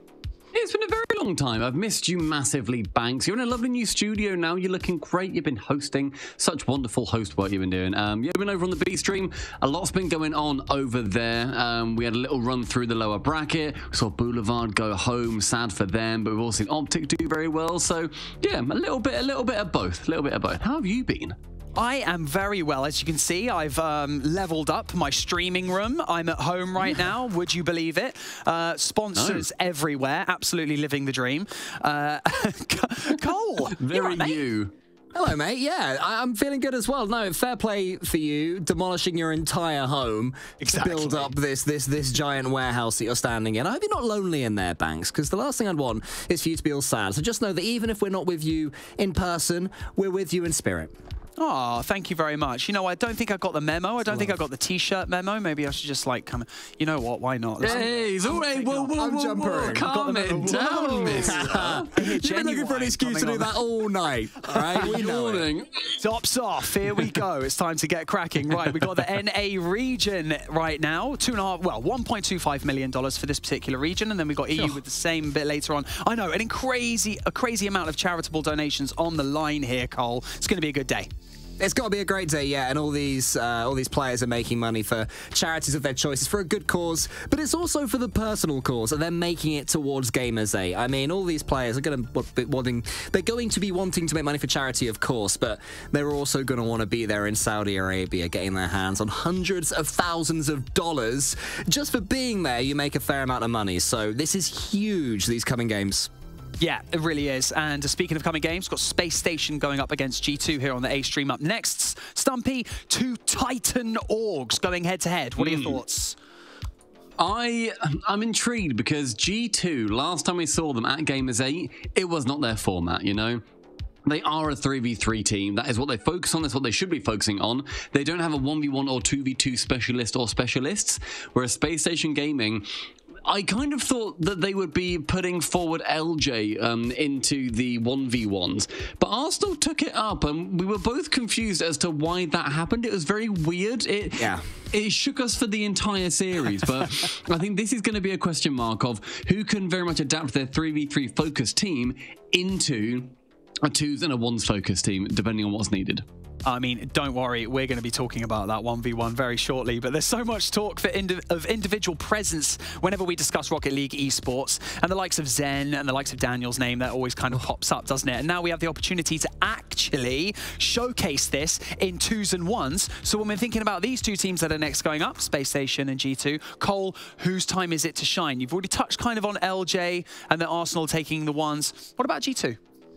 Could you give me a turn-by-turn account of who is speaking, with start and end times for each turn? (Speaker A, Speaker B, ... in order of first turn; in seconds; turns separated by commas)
Speaker A: 0.5-21.4, Speaker B: 21.8-34.4, Speaker A: 29.2-29.5, Speaker A: 33.7-34.7, Speaker C: 35.1-51.0, Speaker B: 51.4-58.9, Speaker A: 57.6-61.9, Speaker C: 57.6-57.9, Speaker C: 59.0-65.5, Speaker B: 59.7-63.6, Speaker A: 64.5-65.7, Speaker B: 66.0-81.1, Speaker C: 81.6-106.1, Speaker B: 106.6-116.2, Speaker A: 115.4-115.8, Speaker A: 117.2-123.4, Speaker A: 124.1-132.7, Speaker A: 133.3-156.1, Speaker C: 144.2-144.4, Speaker B: 156.5-182.6